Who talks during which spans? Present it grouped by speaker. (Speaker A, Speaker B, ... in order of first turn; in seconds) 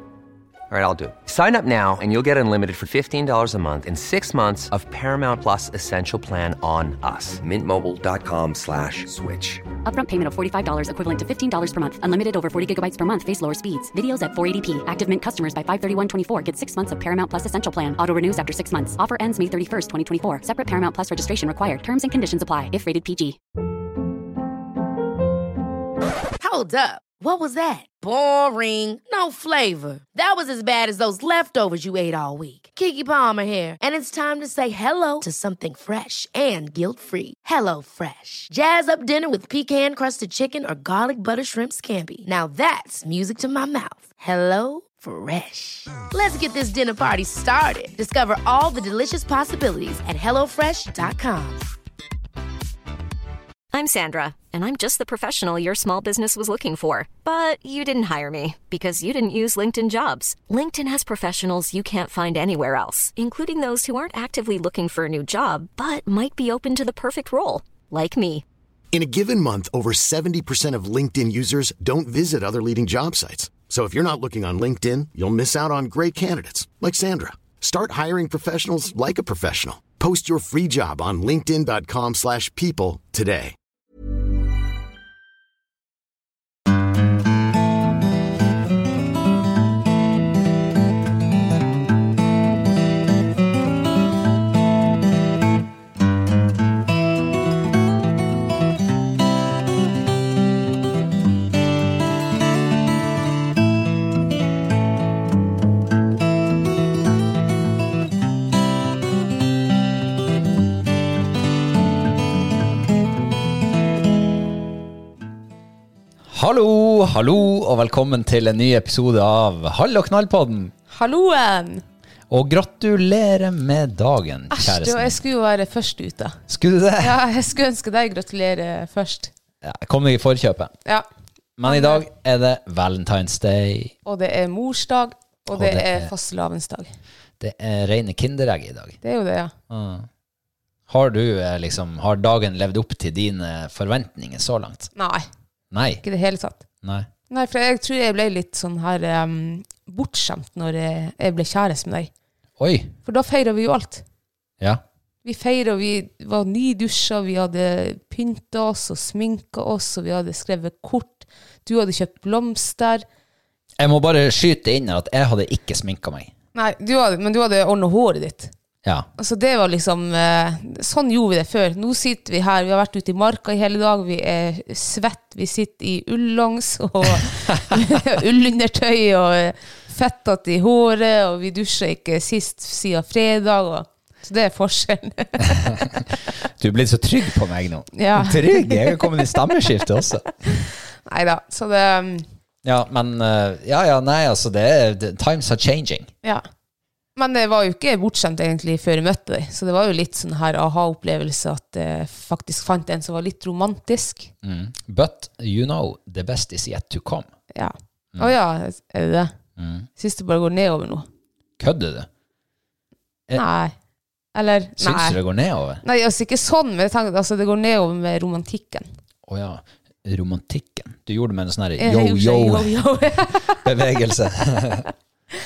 Speaker A: 0.7-9.7
Speaker B: 9.8-23.4
Speaker C: 26.4-51.6
Speaker D: 53.7-68.4
Speaker E: 68.9-83.5
Speaker F: 116.3-120.7, 122.3-125.2, 126.5-127.2, 129.6-130.7, 131.6-133.9, 135.5-136.1, 137.4-139.0, 139.7-140.1, 140.9-144.9, 145.7-146.0, 146.8-147.1, 152.6-152.9, 163.8-166.3, 168.8-169.1, 185.4-190.3, 192.6-196.1, 204.4-207.3, 209.6-209.9, 211.6-212.1, 214.8-215.8, 219.3-224.9
Speaker G: 120.9-121.8, 124.5-126.4, 127.0-129.3, 131.6-132.0, 134.1-136.9, 139.0-139.5, 144.9-145.2, 146.0-146.6, 147.3-152.1, 153.0-154.0, 155.2-163.0, 166.5-168.5, 169.2-185.9, 187.9-189.2, 190.5-192.2, 197.2-204.3, 207.5-209.3, 210.0-211.1, 213.3-213.7, 214.3-215.2, 215.8-218.9, 221.8-223.6